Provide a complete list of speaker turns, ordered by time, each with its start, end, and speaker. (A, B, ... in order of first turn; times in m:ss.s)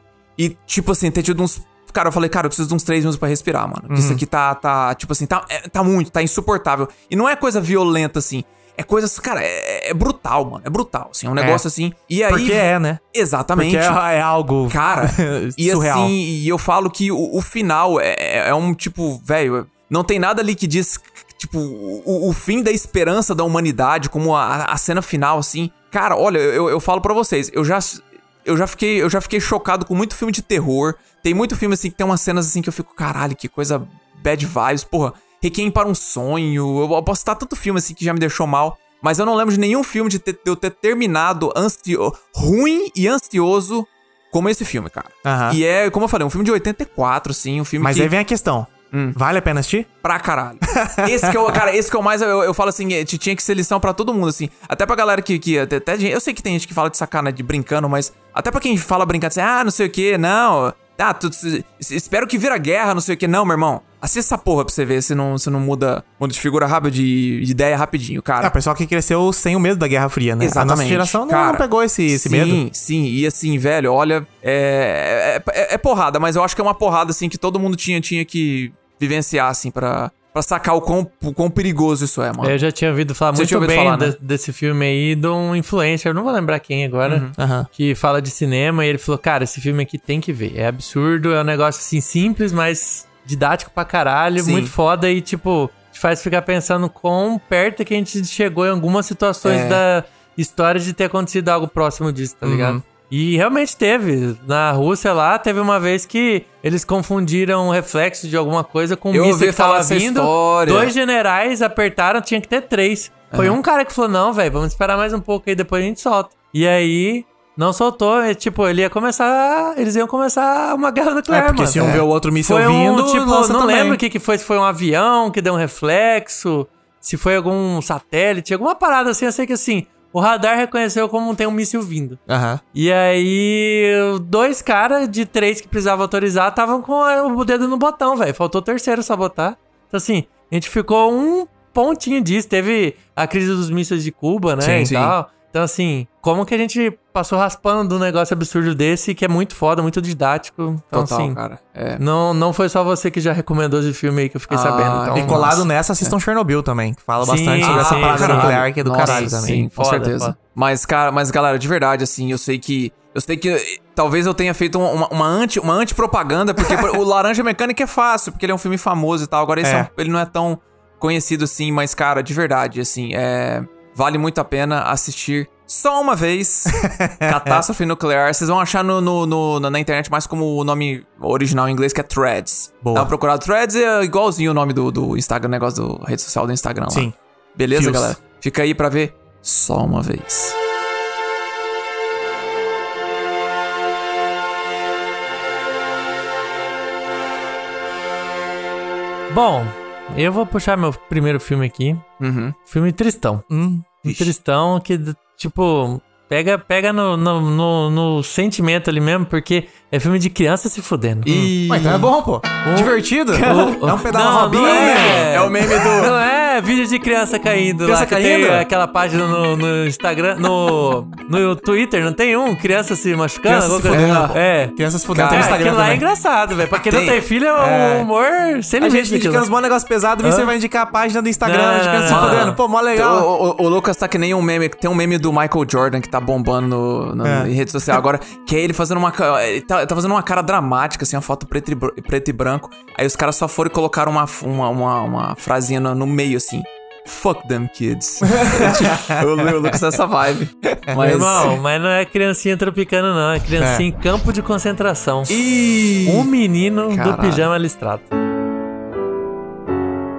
0:00.4-0:14.0 A
0:03.9-0:04.2 B
0:11.4-0:11.6 B
0:12.3-0:13.0 B
0:13.5-0:16.1 B
0:14.7-0:48.1 A
0:45.2-0:45.6 B
0:47.8-0:49.9 B
0:48.9-0:49.2 A
0:50.0-1:08.5 A
0:50.7-0:51.6 B
1:08.4-1:12.6 B
1:10.4-1:22.6 A
1:22.4-2:12.2 C
1:23.3-1:24.2 A
1:27.0-1:27.3 A
1:27.4-1:27.7 B
1:34.4-1:34.7 A
1:39.4-1:39.8 A
1:42.4-1:42.8 B
1:49.1-1:50.9 A
1:53.3-1:53.6 A
2:01.3-2:04.0 B
2:12.3-2:12.6 B
2:12.7-2:31.4 C
2:24.6-2:24.9 B
2:24.8-2:25.2 A
2:30.9-2:32.0 A
2:32.0-2:35.6 C
2:34.5-2:36.1 A
2:35.2-2:39.6 B
2:37.2-2:40.3 C
2:37.6-3:10.6 A
2:49.6-2:49.9 B
2:56.7-2:57.6 B
3:02.8-3:03.1 B
3:06.9-3:07.1 B
3:07.7-3:08.2 B
3:19.3-3:22.0 C
3:22.2-3:22.5 A
3:22.7-3:23.4 C
3:23.5-3:24.0 B
3:24.0-3:31.5 C
3:31.2-3:32.1 A
3:31.6-3:35.5 B
3:32.6-3:44.8 C
3:33.3-3:33.8 A
3:34.6-3:36.1 A
3:37.8-3:38.6 B
3:43.4-3:46.0 B
3:43.9-3:44.4 A
3:45.1-3:45.8 A
3:45.3-3:49.5 C
3:46.9-3:47.2 A
3:47.6-3:48.1 B
3:48.8-3:53.3 B
3:50.2-3:50.5 C
3:51.4-3:52.6 C
3:52.1-4:11.5 A
3:57.2-3:57.5 B
4:08.3-4:09.8 B
4:10.9-4:11.5 B
4:11.0-4:15.4 C
4:13.6-4:13.8 B
4:15.3-4:16.3 A
4:16.0-4:18.1 C
4:16.9-4:17.5 A